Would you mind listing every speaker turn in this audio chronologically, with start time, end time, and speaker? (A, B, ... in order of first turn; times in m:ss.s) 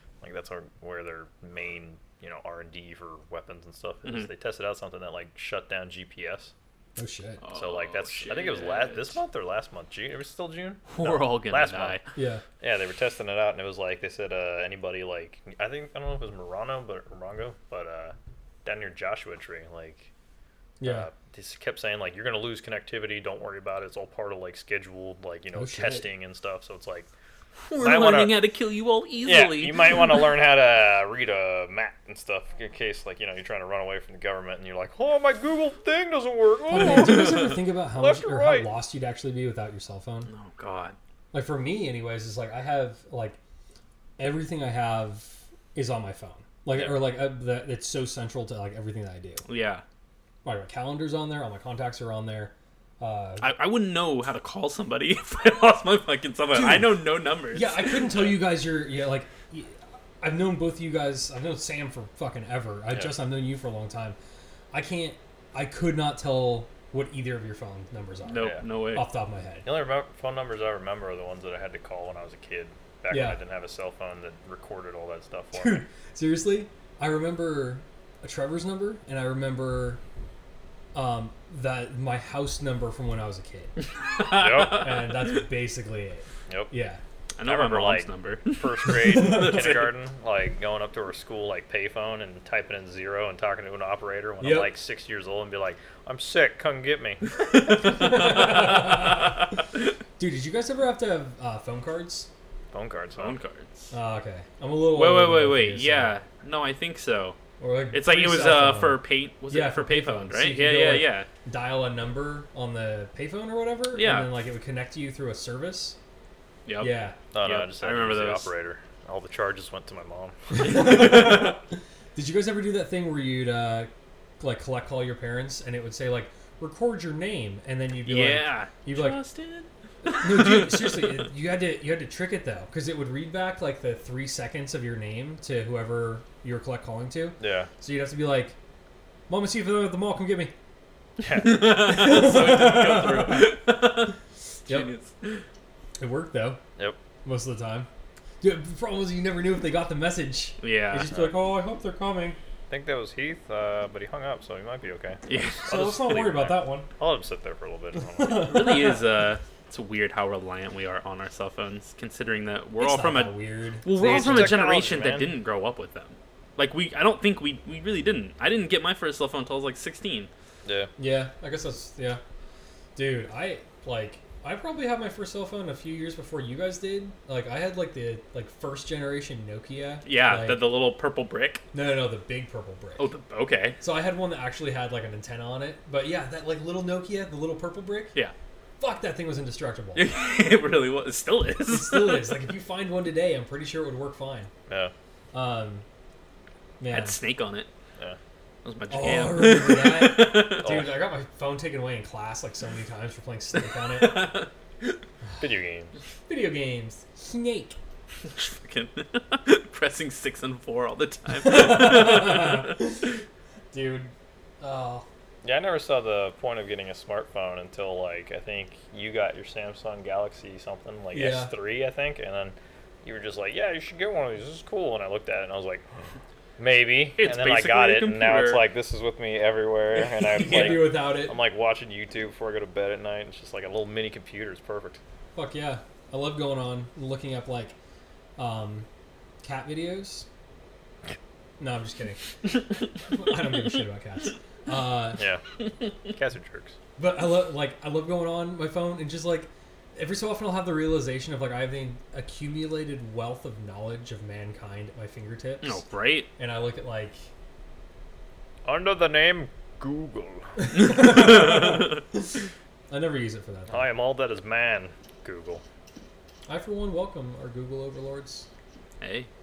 0:00.2-0:06.5 A
0:04.0-0:04.3 B
0:07.0-0:07.4 C
0:07.4-0:09.2 B
0:07.5-0:12.0 A
0:10.9-0:12.0 B
0:12.1-0:12.4 C
0:12.6-0:20.1 A
0:20.8-0:21.1 C
0:20.8-0:27.1 A
0:25.5-0:26.1 C
0:27.6-0:30.4 B
0:27.8-0:28.4 A
0:29.2-0:38.7 A
0:36.7-0:40.3 C
0:40.3-0:41.0 B
0:41.3-0:43.4 C
0:44.2-0:49.4 C
0:46.7-0:47.0 A
0:49.4-0:49.8 B
0:50.4-0:53.5 C
0:53.4-0:58.2 B
0:56.5-1:04.2 C
1:04.7-1:09.7 C
1:08.2-1:09.1 B
1:09.6-1:15.8 A
1:13.1-1:13.4 C
1:15.5-1:20.0 C
1:20.9-1:23.8 C
1:24.2-1:25.0 B
1:24.3-1:24.9 A
1:24.6-1:27.0 C
1:27.4-1:29.9 B
1:27.4-1:37.2 A
1:28.8-1:29.6 C
1:34.4-1:34.7 C
1:37.3-1:39.2 B
1:37.7-1:39.4 C
1:40.2-1:42.3 C
1:42.7-1:43.4 A
1:43.2-1:43.9 B
1:43.9-1:46.1 C
1:44.9-1:47.4 B
1:47.6-1:56.0 C
1:47.9-1:51.3 B
1:53.9-1:54.3 B
1:56.6-1:58.5 B
1:56.8-1:57.2 C
1:57.3-2:00.8 A
2:00.5-2:09.2 C
2:08.0-2:11.2 B
2:10.2-2:18.6 C
2:17.4-2:17.7 A
2:19.3-2:20.5 C
2:21.2-2:21.7 A
2:21.2-2:25.4 B
2:21.4-2:23.5 C
2:24.7-2:24.9 C
2:26.0-2:26.6 C
2:27.2-2:27.9 C
2:28.4-2:32.4 C
2:30.6-2:31.1 B
2:31.1-2:31.3 A
2:32.7-2:38.7 A
2:35.3-2:35.7 B
2:35.6-2:36.9 C
2:37.9-2:39.0 C
2:38.2-2:50.3 B
2:42.8-2:44.6 C
2:44.0-2:45.3 A
2:50.6-2:50.9 A
2:51.0-2:52.2 C
2:53.0-3:00.7 C
3:00.0-3:01.6 B
3:01.7-3:03.1 C
3:03.0-3:03.8 B
3:03.8-3:08.1 C
3:08.8-3:10.1 C
3:10.0-3:12.4 B
3:11.7-3:14.5 C
3:14.7-3:14.9 A
3:15.3-3:15.8 C
3:16.8-3:17.2 C
3:16.9-3:17.7 B
3:18.6-3:20.8 B
3:18.9-3:24.3 C
3:20.6-3:21.0 A
3:23.6-3:25.0 B
3:25.4-3:25.9 A
3:26.3-3:27.8 C
3:28.2-3:32.8 B
3:31.4-3:33.1 C
3:33.7-3:35.0 C
3:35.4-3:45.8 A
3:41.1-3:41.5 C
3:46.6-3:55.0 A
3:47.2-3:48.6 B
3:49.9-3:51.4 C
3:55.4-3:57.7 C
3:58.4-3:58.9 C
3:59.4-4:00.3 C
4:01.6-4:05.3 C
4:05.2-4:05.4 A
4:06.0-4:06.8 A
4:07.0-4:15.8 C
4:15.6-4:16.3 B
4:16.4-4:17.3 C
4:18.6-4:20.5 A
4:20.6-4:22.3 C
4:20.8-4:22.0 B
4:22.9-4:23.9 C
4:23.7-4:25.6 A
4:26.5-4:28.5 C
4:29.0-4:29.3 B